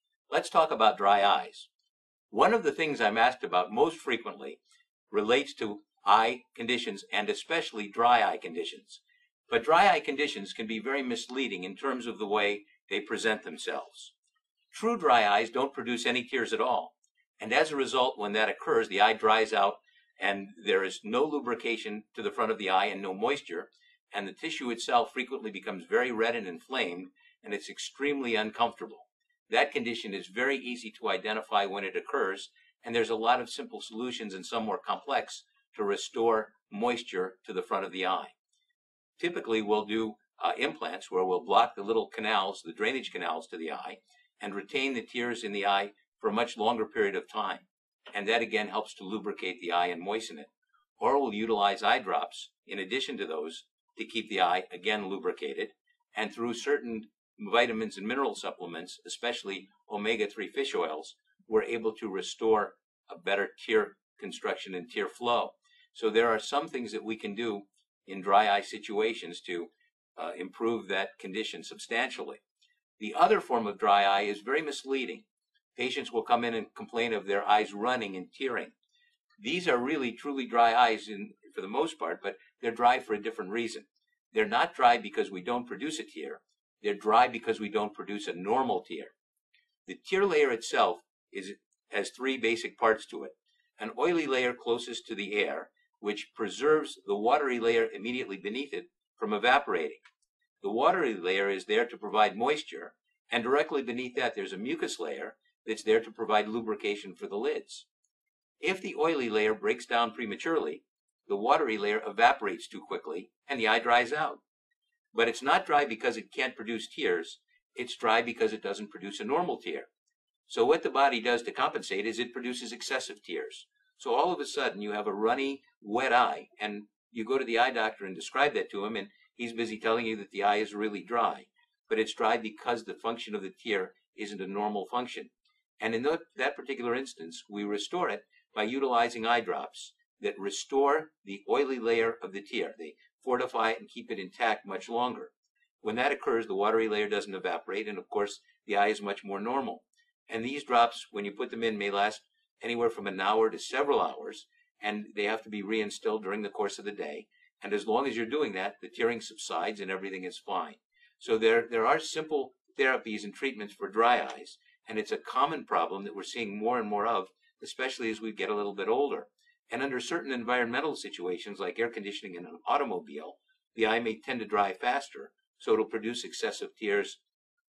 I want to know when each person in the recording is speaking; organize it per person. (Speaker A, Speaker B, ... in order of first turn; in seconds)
Speaker A: 0.3-1.7, 2.3-4.6, 5.1-14.1, 14.7-38.3, 39.2-72.4, 73.0-75.2, 75.8-78.7, 79.4-89.1, 89.9-100.0, 100.6-107.9, 108.6-114.4, 115.1-119.9, 120.5-177.2